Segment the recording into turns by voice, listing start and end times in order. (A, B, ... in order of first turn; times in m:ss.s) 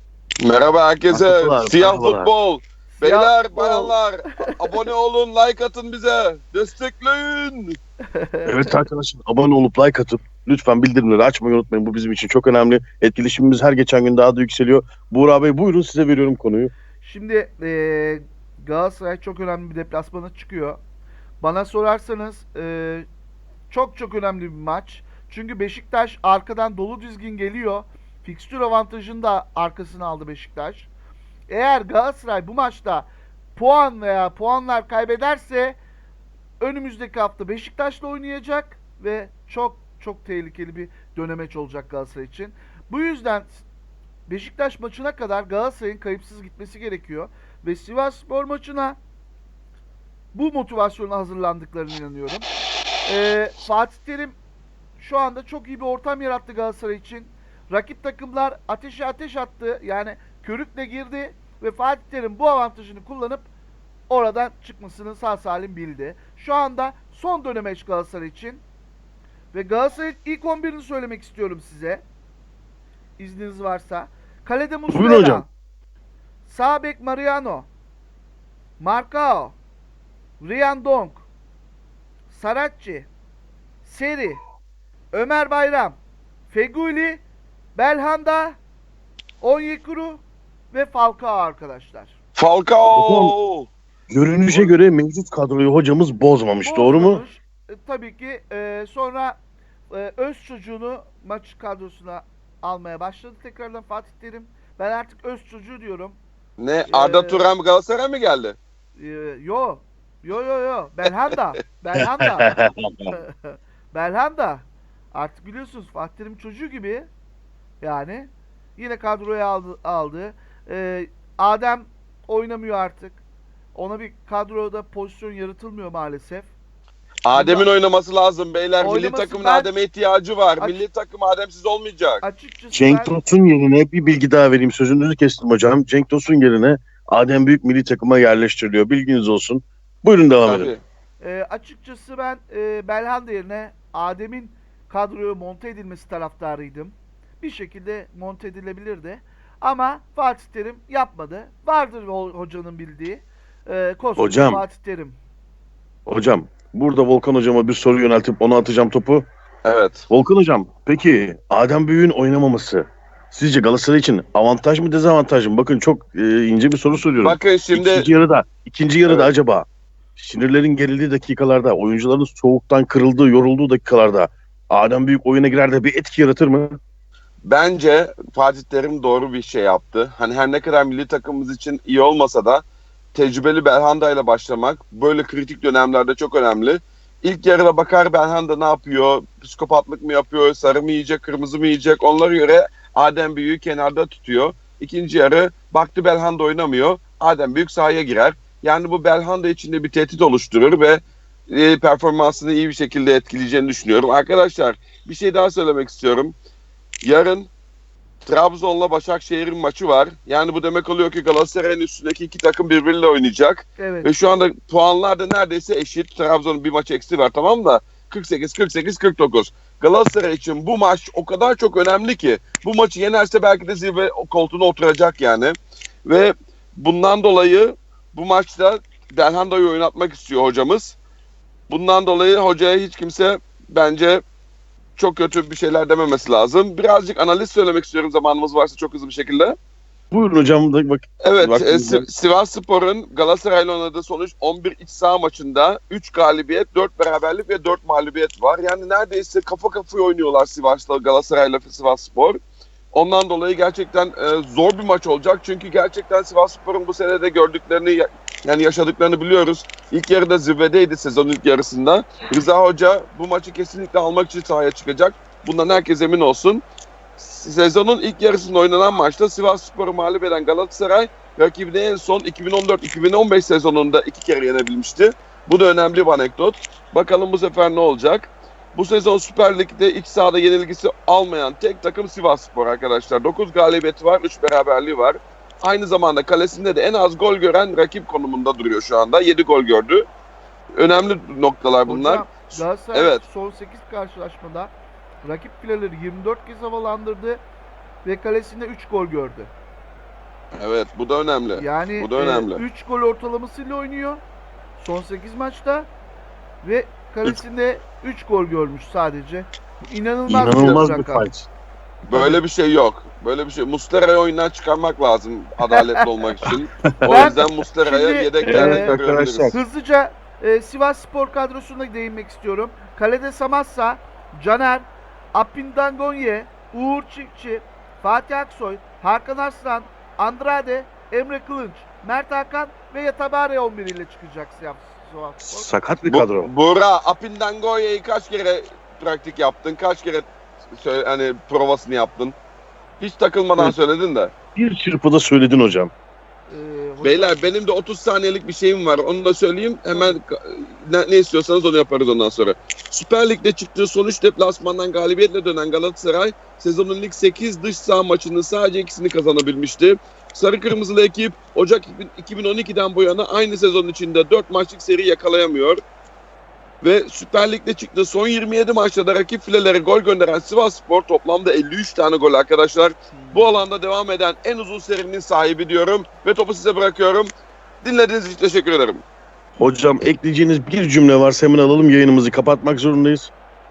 0:00.4-0:07.8 A
0:01.1-0:02.3 B
0:02.9-0:04.5 C
0:08.1-0:08.7 C
0:08.4-0:16.7 B
0:17.0-0:20.8 C
0:21.4-0:23.1 C
0:23.7-0:30.9 C
0:31.5-0:35.8 C
0:36.6-0:43.6 C
0:44.3-0:49.0 C
0:50.3-0:52.5 C
0:53.0-0:54.4 C
0:55.0-1:03.5 C
1:04.1-1:08.6 C
1:09.5-1:12.0 C
1:13.2-1:15.5 C
1:14.9-1:15.4 B
1:16.4-1:17.7 C
1:18.8-1:19.6 C
1:20.4-1:21.2 C
1:22.3-1:23.1 C
1:23.8-1:24.4 C
1:25.1-1:27.2 C
1:27.7-1:28.6 C
1:29.4-1:32.2 C
1:32.4-1:33.7 A
1:32.9-1:33.3 B
1:34.1-1:37.2 B
1:34.5-1:34.7 A
1:36.6-1:39.4 C
1:39.9-1:46.2 C
1:46.6-1:48.6 A
1:46.9-1:47.5 C
1:49.0-1:52.6 C
1:52.2-1:52.7 B
1:53.1-1:57.1 C
1:57.8-2:03.2 C
2:03.7-2:06.5 C
2:07.2-2:12.2 A
2:07.3-2:07.7 C
2:08.8-2:09.7 C
2:10.6-2:10.8 C
2:12.2-2:13.2 C
2:12.7-2:20.7 B
2:20.4-2:20.8 A
2:21.2-2:35.2 C
2:34.2-2:34.6 B
2:36.1-2:39.2 B
2:39.6-2:40.0 A
2:40.1-2:49.6 B
2:47.2-2:48.1 A
2:49.0-2:49.3 A
2:50.2-2:56.8 B
2:57.5-3:26.3 A
3:27.0-3:27.5 A
3:28.2-3:51.0 A
3:33.8-3:34.1 C
3:51.7-3:54.2 A
3:55.0-3:59.5 A
4:00.1-4:02.1 B
4:01.2-4:12.4 A
4:12.9-4:26.6 A
4:27.2-4:50.0 A
4:50.8-4:53.2 A
4:51.8-4:57.4 C
4:58.0-4:59.5 C
5:00.5-5:02.6 A
5:01.5-5:04.2 C
5:04.8-5:05.9 C
5:06.6-5:11.3 C
5:10.3-5:11.5 B
5:10.4-5:10.8 A
5:12.1-5:19.5 A
5:12.1-5:12.4 B
5:17.0-5:17.3 B
5:17.1-5:19.0 C
5:18.4-5:19.6 B
5:19.5-5:35.7 C
5:35.4-5:36.5 B
5:36.0-5:42.4 A
5:43.0-5:44.3 A
5:44.5-5:45.9 B
5:46.5-5:47.5 C
5:47.0-6:05.8 A
6:06.8-6:17.3 A
6:13.1-6:13.6 C
6:17.8-6:19.0 A
6:19.6-6:23.3 B